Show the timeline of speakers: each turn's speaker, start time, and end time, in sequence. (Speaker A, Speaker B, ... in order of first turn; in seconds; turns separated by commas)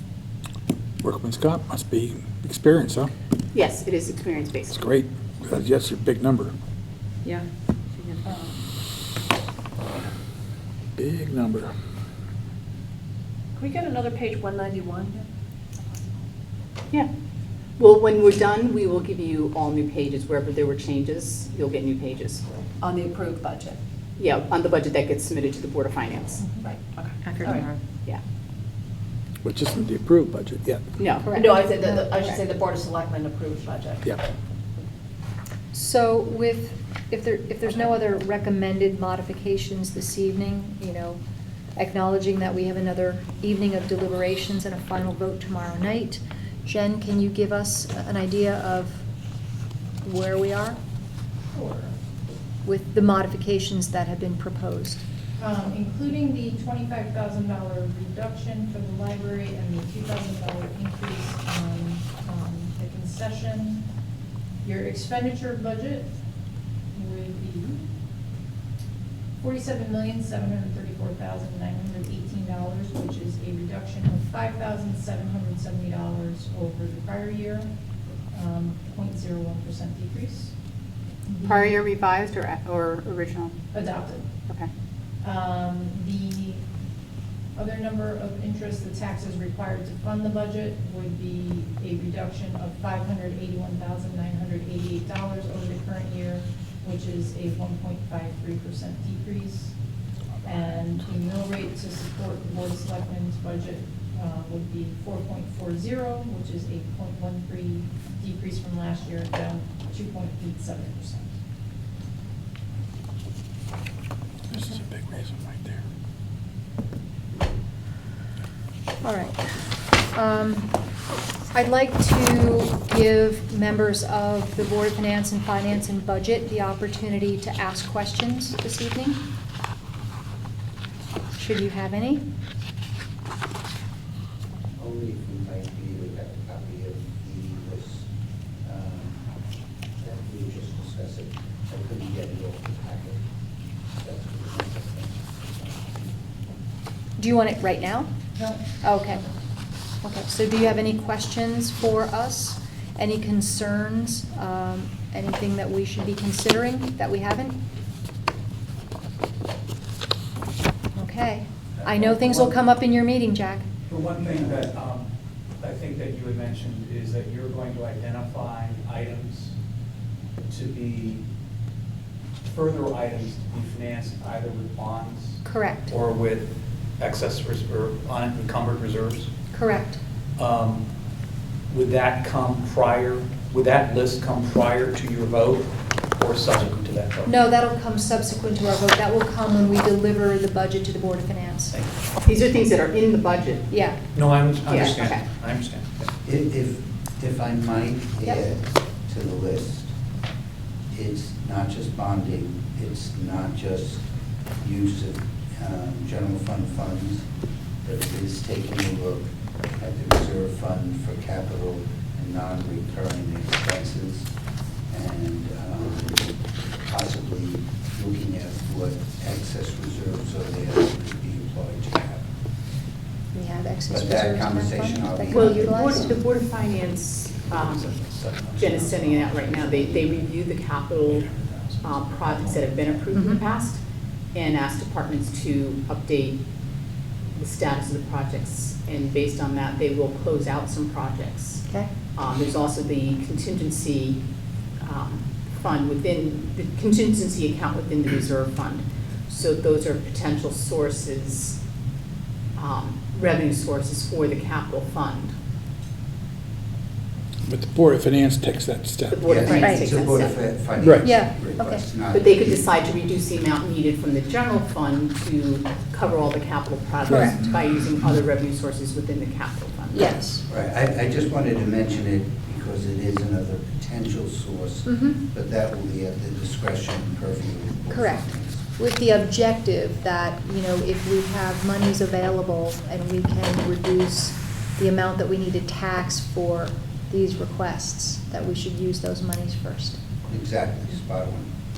Speaker A: 1.0-3.1, Speaker B: 3.5-4.8, Speaker A: 4.7-6.5, Speaker C: 8.0-8.7, Speaker A: 11.0-11.7, Speaker C: 13.6-15.3, Speaker B: 17.8-22.7, Speaker C: 22.8-23.8, Speaker B: 24.2-26.4, Speaker C: 26.7-27.8, Speaker A: 29.4-30.9, Speaker B: 31.0-31.4, Speaker D: 31.2-32.4, Speaker C: 31.3-34.1, Speaker D: 35.7-41.2, Speaker D: 41.8-49.1, Speaker D: 50.0-50.8, Speaker E: 51.5-52.0, Speaker D: 52.6-55.0, Speaker E: 55.4-63.9, Speaker E: 64.6-66.1, Speaker E: 66.9-67.8, Speaker E: 69.4-77.7, Speaker E: 78.3-80.5, Speaker E: 81.3-81.8, Speaker B: 81.5-83.6, Speaker E: 83.7-84.3, Speaker E: 85.2-86.6, Speaker E: 87.6-99.7, Speaker E: 100.4-111.3, Speaker A: 114.5-115.8, Speaker D: 119.0-119.4, Speaker D: 120.1-120.8, Speaker D: 121.5-129.3, Speaker D: 131.4-132.2, Speaker F: 134.8-138.1, Speaker F: 138.6-139.2, Speaker F: 140.0-143.2, Speaker F: 144.0-145.8, Speaker D: 147.2-148.1, Speaker E: 148.4-148.7, Speaker D: 148.7-149.2, Speaker D: 150.0-157.6, Speaker D: 161.0-163.7, Speaker G: 161.8-162.6, Speaker G: 163.9-165.1, Speaker G: 165.6-169.5, Speaker G: 170.5-171.2, Speaker G: 172.4-179.3, Speaker D: 175.4-175.9, Speaker D: 179.5-180.0, Speaker G: 180.4-180.8, Speaker G: 181.7-187.3, Speaker D: 187.3-191.8, Speaker G: 191.7-192.0, Speaker B: 192.2-193.7, Speaker D: 193.7-194.1, Speaker G: 194.2-196.1, Speaker B: 194.7-195.2, Speaker D: 194.7-194.9, Speaker F: 196.2-199.9, Speaker F: 200.9-204.0, Speaker F: 204.6-207.2, Speaker F: 207.8-214.3, Speaker F: 214.9-216.3, Speaker F: 216.9-222.3, Speaker D: 223.3-226.2, Speaker F: 223.9-225.9, Speaker B: 225.3-228.0, Speaker G: 227.4-230.3, Speaker B: 228.5-231.3, Speaker G: 231.0-233.0, Speaker B: 231.8-233.8, Speaker D: 233.1-233.4, Speaker B: 234.3-236.4, Speaker B: 237.3-244.2, Speaker B: 244.8-251.6, Speaker B: 252.6-255.3, Speaker A: 257.5-259.2, Speaker B: 259.1-260.5, Speaker F: 259.2-262.8, Speaker D: 259.5-259.9, Speaker A: 260.8-261.1, Speaker D: 261.0-261.9, Speaker B: 262.1-270.2, Speaker D: 267.1-267.4, Speaker D: 269.9-270.4, Speaker F: 270.5-278.6, Speaker D: 274.9-275.2, Speaker D: 277.9-290.0, Speaker F: 290.3-291.5